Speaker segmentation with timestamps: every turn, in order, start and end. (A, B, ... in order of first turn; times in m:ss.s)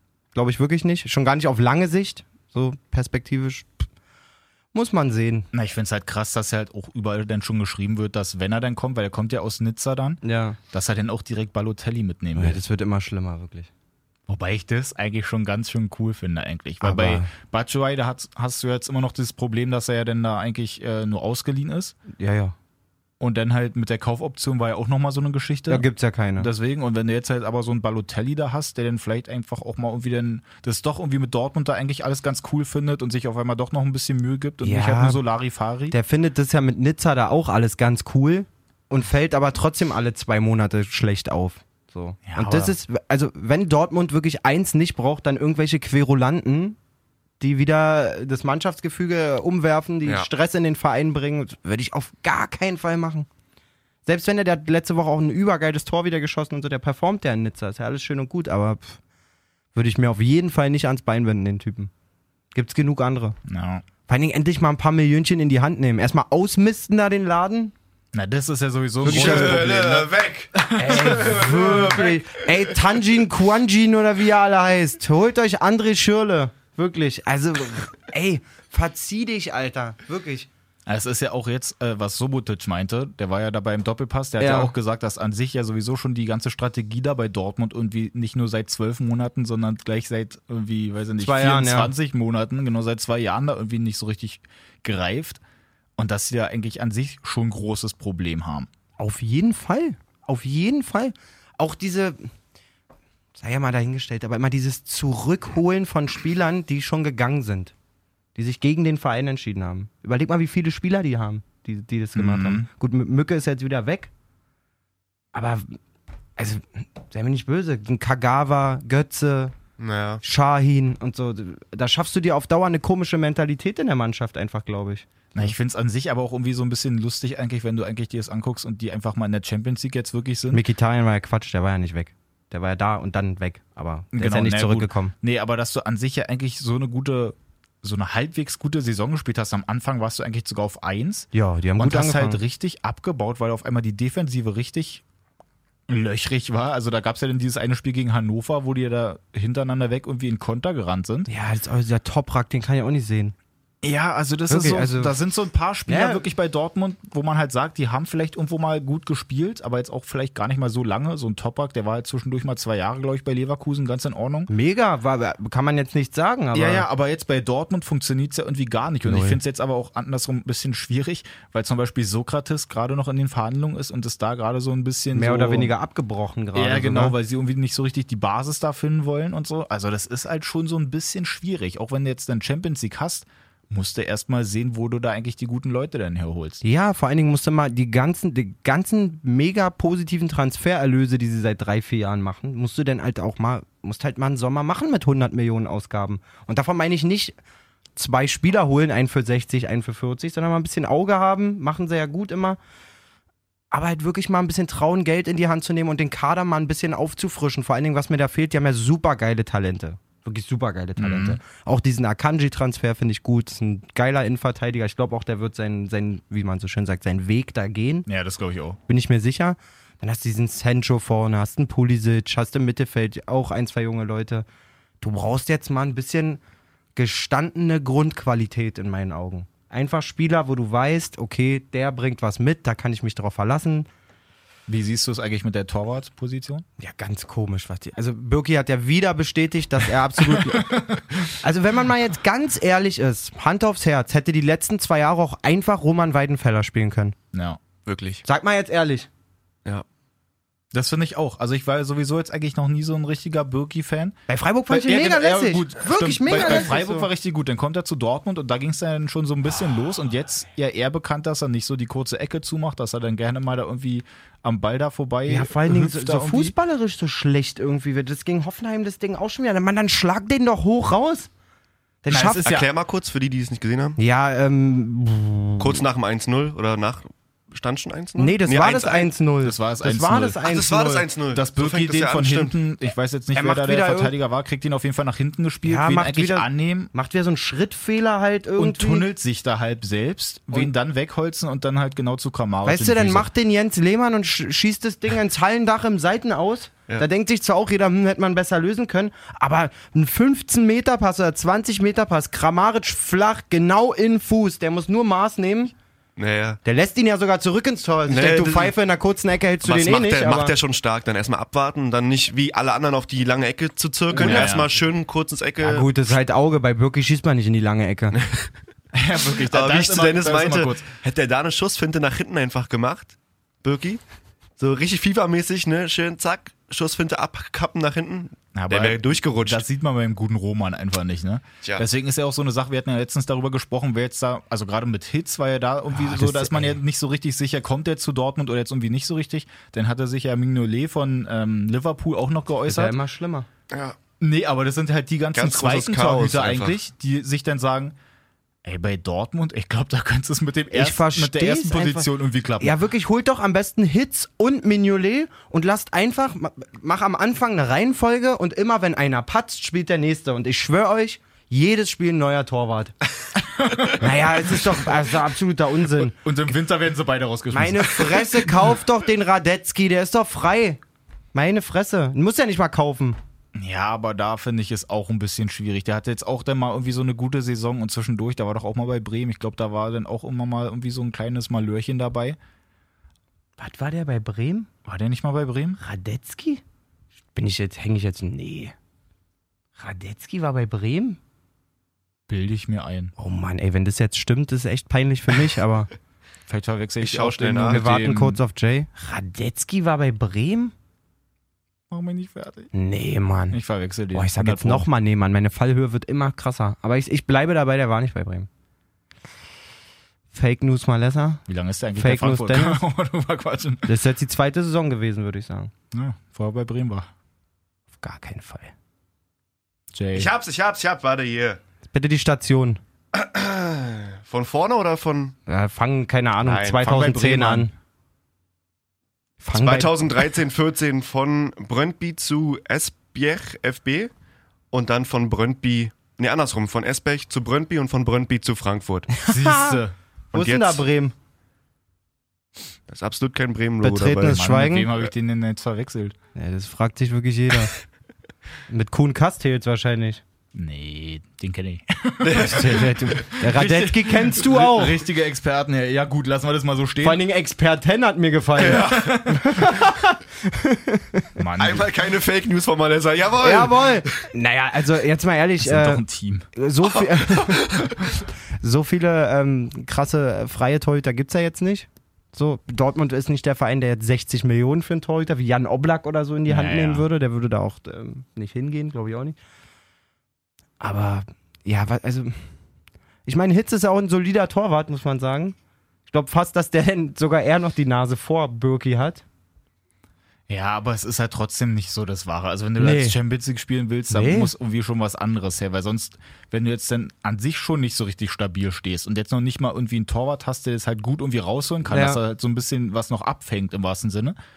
0:00.3-0:03.9 A
0:04.7-0:05.5 A
0:05.5-0:12.6 B
0:10.2-0:10.6 A
0:12.4-0:13.7 A
0:14.3-0:22.0 B
0:16.8-0:17.3 A
0:22.1-0:22.6 A
0:23.2-0:25.9 B
0:25.7-0:26.5 A
0:26.4-0:36.0 B
0:34.6-0:35.2 A
0:35.9-0:46.8 A
0:42.3-0:42.8 B
0:47.4-0:53.3 A
0:54.0-0:59.0 A
0:59.8-1:01.9 A
1:02.5-1:03.4 A
1:03.5-1:03.8 B
1:04.1-1:07.7 A
1:08.1-1:11.8 B
1:09.0-1:09.7 A
1:09.0-1:12.2 C
1:10.8-1:20.5 A
1:20.9-1:35.4 B
1:24.4-1:24.7 A
1:31.2-1:31.9 A
1:36.0-1:38.7 B
1:39.0-1:42.3 A
1:43.4-1:47.7 A
1:48.4-1:54.1 A
1:52.2-1:52.7 B
1:55.3-1:55.8 A
1:56.4-1:59.6 A
1:59.8-2:00.2 C
2:00.2-2:05.1 A
2:05.4-2:10.6 B
2:10.5-2:15.1 A
2:14.1-2:25.0 B
2:21.3-2:22.4 A
2:25.9-2:31.3 B
2:31.3-2:33.4 A
2:33.8-2:44.5 B
2:34.5-2:35.2 A
2:35.9-2:36.3 A
2:44.5-2:46.9 A
2:46.5-2:55.7 B
2:49.0-2:49.4 A
2:55.1-2:57.2 A
2:56.6-3:06.6 B
3:06.6-3:17.4 A
3:18.0-3:22.6 A
3:23.7-3:38.1 A
3:31.0-3:31.4 B
3:38.1-3:38.8 B
3:38.9-3:44.4 A
3:45.0-3:46.4 A
3:47.0-3:53.9 A
3:54.7-3:56.6 B
3:56.8-4:00.8 A
4:00.3-4:01.2 B
4:01.4-4:07.2 A
4:07.3-4:07.6 B
4:07.9-4:08.2 C
4:08.2-4:09.1 A
4:10.7-4:14.2 B
4:14.3-4:17.1 A
4:14.7-4:26.5 B
4:25.3-4:31.3 A
4:32.0-4:32.5 A
4:32.1-4:32.6 B
4:32.3-4:34.0 C
4:34.0-4:35.8 A
4:35.6-4:39.1 C
4:38.2-4:41.0 A
4:39.4-4:40.4 B
4:40.4-4:42.6 C
4:41.3-4:46.9 B
4:43.3-4:44.1 A
4:45.6-4:49.1 A
4:48.6-4:53.3 B
4:52.6-5:05.7 A
5:06.2-5:06.6 C
5:06.6-5:10.5 A
5:08.1-5:08.7 C
5:09.6-5:16.0 C
5:14.1-5:14.5 A
5:14.2-5:14.7 B
5:15.6-5:18.2 A
5:18.2-5:18.5 C
5:18.9-5:20.8 B
5:19.5-5:24.0 C
5:24.6-5:29.6 C
5:28.6-5:43.0 B
5:35.9-5:36.8 A
5:42.7-5:43.5 A
5:43.7-5:44.0 C
5:44.2-5:48.0 B
5:45.3-5:46.8 C
5:48.6-5:52.8 B
5:50.7-6:03.0 A
6:03.4-6:04.9 B
6:04.0-6:06.2 A
6:06.0-6:08.6 B
6:07.5-6:10.8 A
6:11.3-6:13.2 A
6:13.6-6:22.4 B
6:23.6-6:24.7 A
6:24.8-6:25.8 B
6:25.8-6:26.6 A
6:27.3-6:28.8 A
6:29.8-6:31.2 A
6:32.3-6:33.1 B
6:33.2-6:35.9 A
6:36.5-6:38.4 B
6:37.0-6:37.8 C
6:37.7-6:40.7 A
6:41.9-6:42.7 B
6:42.7-6:43.6 A
6:43.5-6:44.9 B
6:44.1-6:48.5 A
6:50.3-6:51.4 A
6:51.5-6:53.9 B
6:52.0-6:52.8 A
6:53.9-6:55.7 A
6:55.9-6:57.1 B
6:58.0-6:58.7 A
6:59.9-7:00.3 B
7:00.1-7:01.6 C
7:01.9-7:02.8 A
7:03.1-7:05.4 C
7:05.5-7:07.7 A
7:06.4-7:06.9 C
7:06.8-7:07.7 B
7:09.4-7:10.0 A
7:09.5-7:14.1 C
7:14.7-7:19.1 C
7:19.2-7:19.8 A
7:19.3-7:20.0 B
7:20.3-7:20.8 C
7:20.3-7:21.1 A
7:22.9-7:24.4 C
7:23.8-7:24.9 A
7:24.2-7:26.2 B
7:26.4-7:27.7 A
7:28.7-7:30.2 A
7:30.5-7:37.2 B
7:32.2-7:33.2 C
7:32.3-7:35.0 A
7:37.0-7:41.3 A
7:38.6-7:39.3 C
7:38.9-7:39.2 B
7:41.4-7:41.9 B
7:41.6-7:44.2 C
7:43.4-7:48.0 A
7:45.6-7:46.5 B
7:47.0-7:48.1 C
7:48.6-7:59.4 A
7:56.5-7:57.1 B
8:00.8-8:02.4 A
8:03.3-8:05.6 A
8:06.1-8:09.2 A
8:10.5-8:24.4 B
8:12.8-8:13.2 A
8:14.1-8:14.5 A
8:21.9-8:22.2 A